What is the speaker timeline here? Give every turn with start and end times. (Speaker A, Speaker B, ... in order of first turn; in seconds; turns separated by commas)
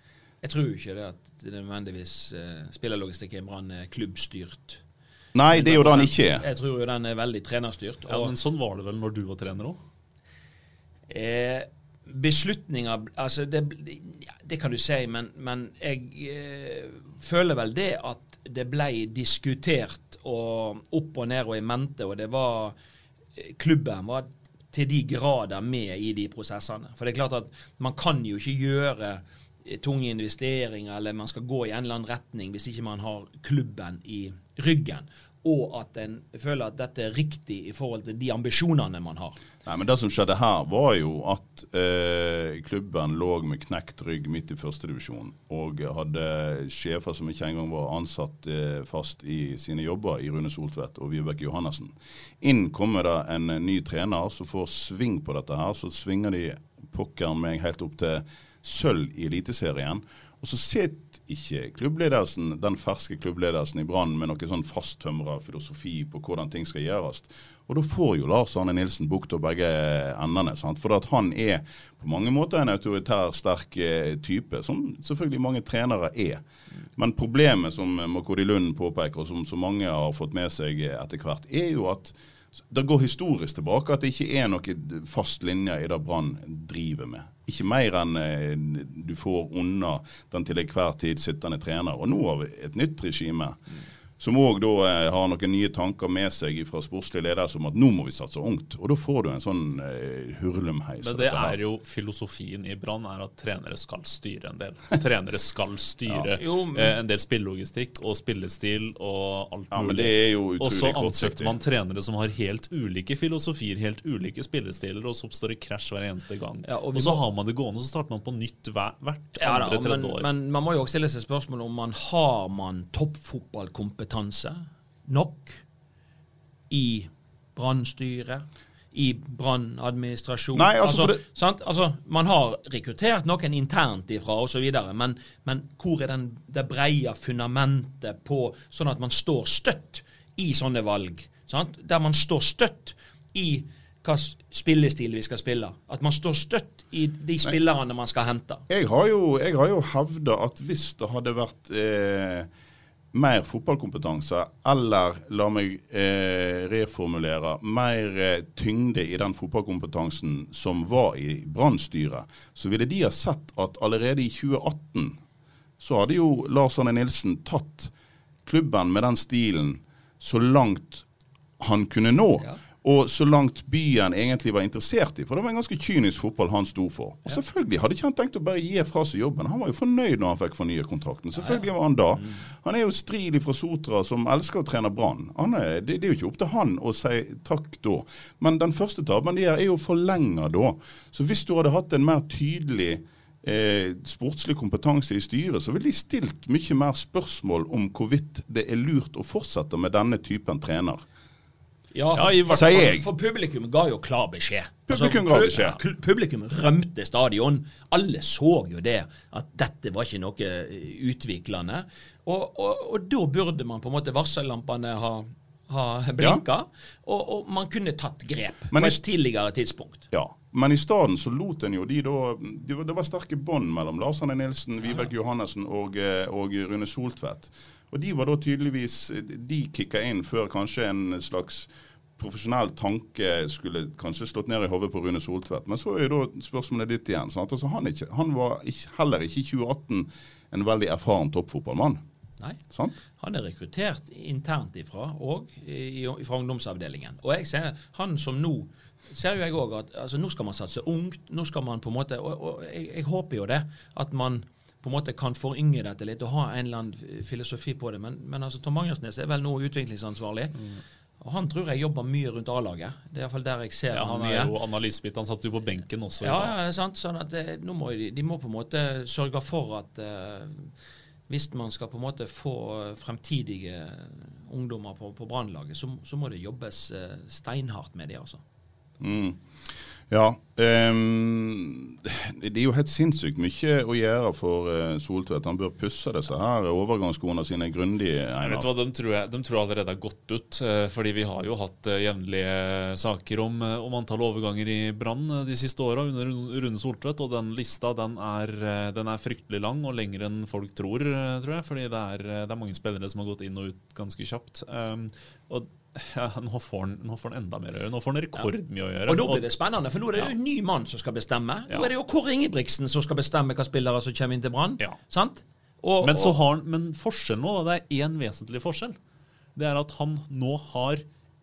Speaker A: 0.4-4.8, Speaker B: 5.3-6.5, Speaker A: 5.5-8.3, Speaker C: 8.1-9.8, Speaker A: 11.1-22.7, Speaker A: 23.4-39.4, Speaker B: 39.6-76.4, Speaker B: 77.0-82.1, Speaker B: 82.7-93.6, Speaker B: 94.2-101.6, Speaker C: 101.0-120.3, Speaker A: 106.4-107.0, Speaker B: 109.7-111.5, Speaker A: 116.7-117.2, Speaker A: 119.4-125.6, Speaker A: 126.7-148.6, Speaker B: 130.5-131.2, Speaker B: 148.7-152.5, Speaker B: 153.1-165.2, Speaker B: 165.8-167.9, Speaker B: 168.4-171.0, Speaker B: 171.6-201.0, Speaker A: 181.4-181.6, Speaker A: 201.9-220.0, Speaker C: 202.1-202.8, Speaker B: 202.5-203.1, Speaker B: 204.9-205.8, Speaker B: 218.7-219.0, Speaker B: 220.1-242.0, Speaker B: 242.7-242.9, Speaker A: 243.2-260.5, Speaker A: 261.2-264.5, Speaker C: 263.9-266.5, Speaker A: 266.2-270.7, Speaker A: 271.3-278.4, Speaker B: 279.0-279.4, Speaker B: 280.1-288.7, Speaker C: 288.4-309.4, Speaker A: 309.1-316.3, Speaker C: 316.0-318.9, Speaker C: 319.6-321.0